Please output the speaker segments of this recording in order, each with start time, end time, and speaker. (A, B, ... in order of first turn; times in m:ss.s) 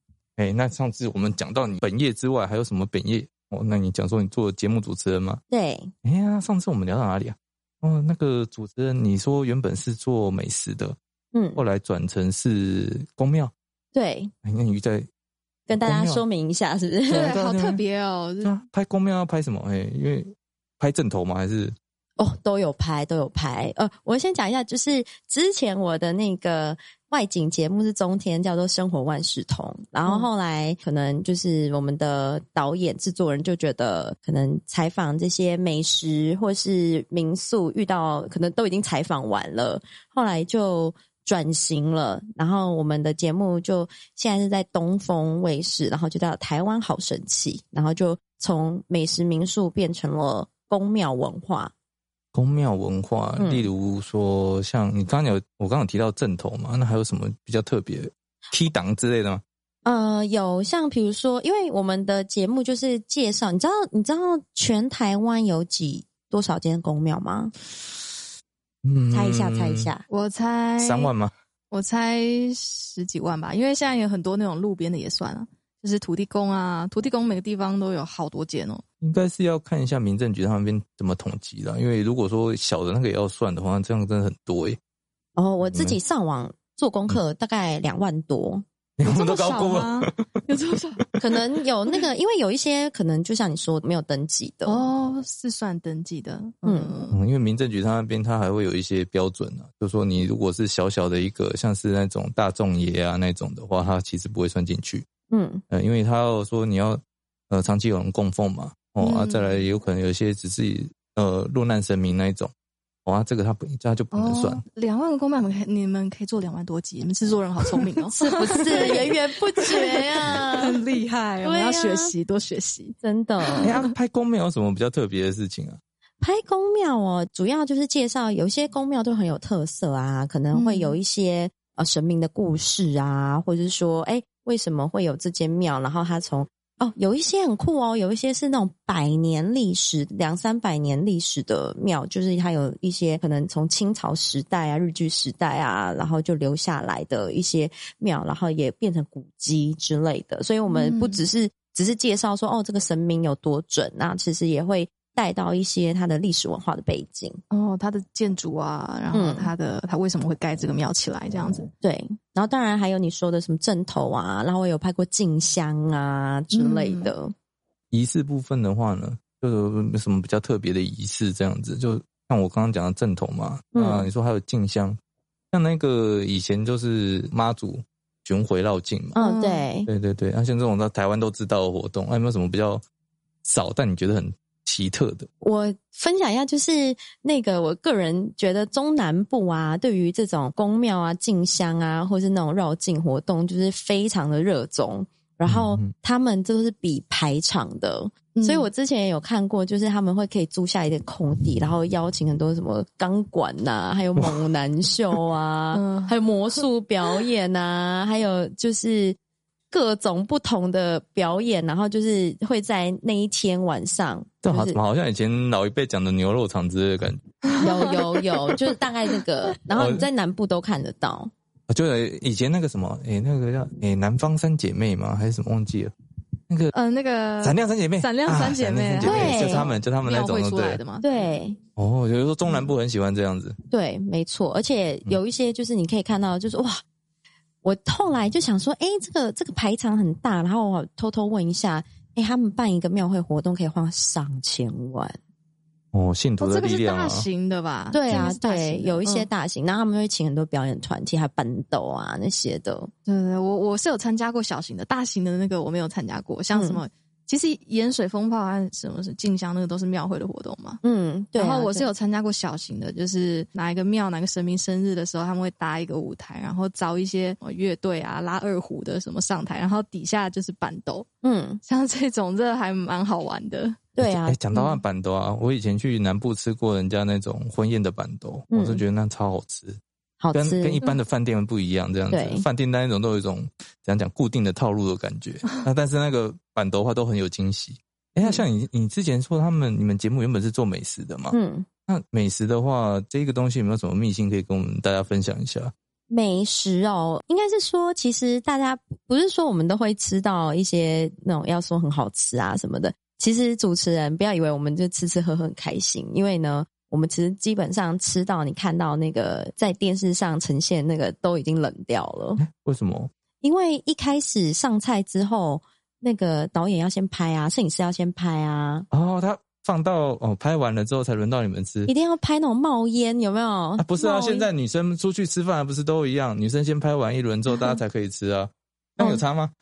0:00.4-0:05.4 A
0:05.5-0:05.9 B
0:06.0-0:11.0 A
0:11.3-0:11.6 B
0:11.6-0:13.5 A
0:13.9-0:14.3 B
0:14.4-0:15.1 A
0:15.7-0:17.3 B
0:15.7-0:16.2 A
0:17.1-0:18.5 C
0:17.2-0:17.8 A
0:18.4-0:21.7 A
0:22.2-0:51.7 B
0:52.3-0:59.4 A
0:53.4-0:53.7 B
0:59.8-1:07.5 B
1:08.8-1:09.9 A
1:09.1-1:10.0 B
1:10.1-1:11.1 C
1:10.8-1:11.3 A
1:11.7-1:18.8 C
1:19.0-1:24.8 A
1:25.4-1:28.6 B
1:25.7-1:26.0 A
1:29.0-1:30.2 A
1:29.0-1:31.1 C
1:31.2-1:34.9 B
1:34.6-1:37.2 C
1:36.6-1:36.9 B
1:37.1-1:45.0 A
1:45.3-1:45.6 B
1:45.7-1:52.5 A
1:49.0-1:49.6 C
1:53.0-1:54.6 A
1:54.1-2:02.9 C
1:58.1-2:00.8 B
2:01.4-2:02.1 B
2:03.0-2:03.7 B
2:03.5-2:03.9 C
2:03.6-2:05.8 A
2:06.2-2:37.4 B
2:10.5-2:11.0 C
2:30.7-2:31.2 C
2:37.5-2:41.7 C
2:39.1-2:39.5 B
2:41.8-2:47.3 B
2:46.5-2:47.1 C
2:47.9-2:55.0 A
2:53.7-2:54.1 B
2:55.5-2:59.2 A
2:59.2-2:59.7 C
2:59.2-2:59.9 B
2:59.9-3:02.8 A
3:03.4-3:05.3 A
3:05.4-3:29.2 B
3:15.5-3:15.9 A
3:18.3-3:18.7 C
3:25.7-3:26.1 C
3:29.7-3:34.8 B
3:34.4-3:37.2 A
3:37.5-3:38.3 C
3:37.6-3:41.3 B
3:39.7-3:40.0 A
3:41.7-3:45.9 A
3:46.5-3:46.7 A
3:46.7-3:51.1 C
3:47.4-3:50.8 A
3:49.0-3:49.7 B
3:51.0-3:51.6 B
3:51.8-3:53.6 A
3:53.7-3:56.8 B
3:57.6-4:05.2 B
4:05.9-4:07.2 A
4:06.4-4:09.3 C
4:07.9-4:12.9 B
4:13.1-4:20.8 C
4:16.5-4:16.8 B
4:20.8-4:21.8 B
4:21.3-4:31.1 C
4:31.2-4:31.6 B
4:31.6-4:33.8 C
4:33.9-4:34.4 B
4:34.0-4:39.8 A
4:34.5-4:34.8 C
4:38.5-4:38.8 B
4:40.2-4:40.8 B
4:40.3-4:51.4 A
4:42.1-4:42.4 B
4:51.3-4:51.6 B
4:51.9-4:55.7 A
4:56.1-5:12.4 B
5:12.4-5:13.1 A
5:13.4-5:18.9 B
5:18.9-5:21.9 A
5:21.9-5:24.5 B
5:23.8-5:29.5 A